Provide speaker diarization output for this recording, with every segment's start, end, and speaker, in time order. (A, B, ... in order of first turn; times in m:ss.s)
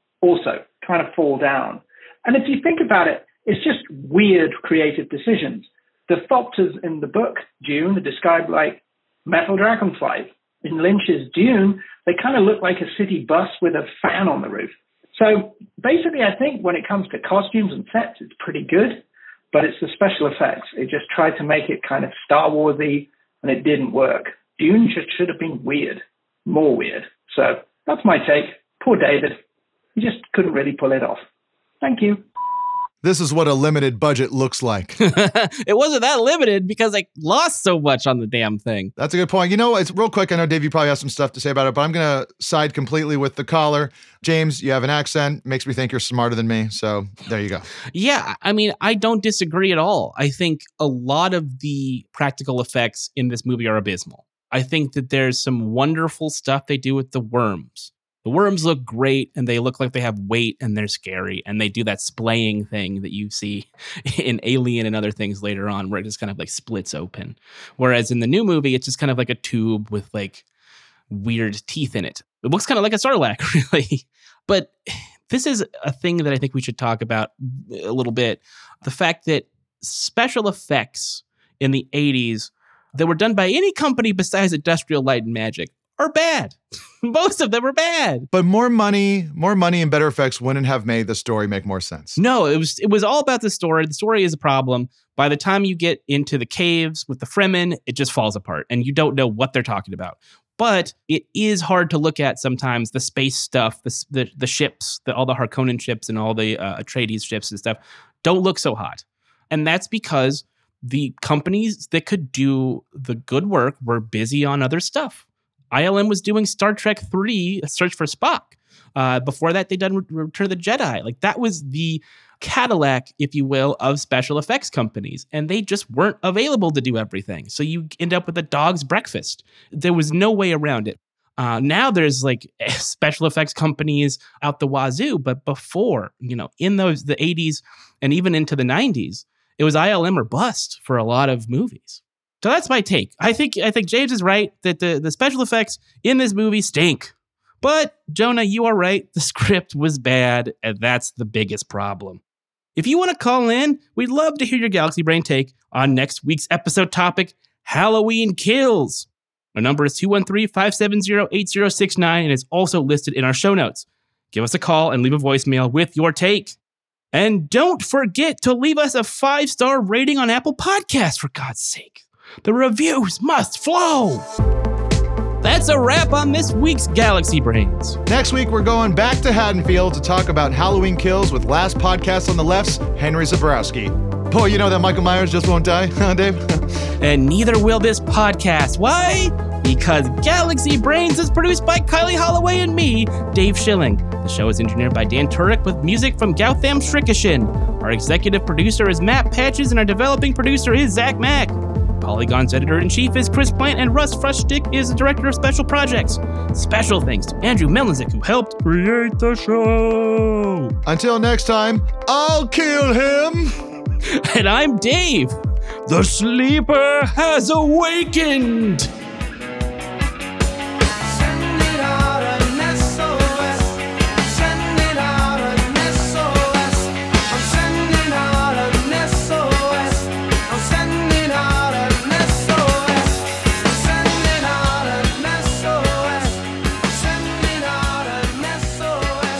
0:00.2-0:29.4 A
0:30.0-0:31.2 A
0:31.8-0:32.2 A
0:33.0-0:35.0 B
0:35.0-0:38.9 C
0:39.0-0:47.6 B
0:47.9-1:10.4 C
1:11.1-1:28.3 C
1:28.3-1:32.2 B
1:32.2-2:32.2 C
2:32.8-2:46.6 C
2:47.1-2:54.2 C
2:55.4-2:58.0 C
2:58.0-3:06.6 B
3:07.0-3:30.7 C
3:30.8-3:33.5 B
3:34.1-3:35.4 C
3:35.9-3:38.9 C
3:41.4-3:43.6 C
3:44.4-3:49.9 C
3:50.5-3:53.1 C
3:54.0-3:56.3 C
3:57.2-3:59.0 C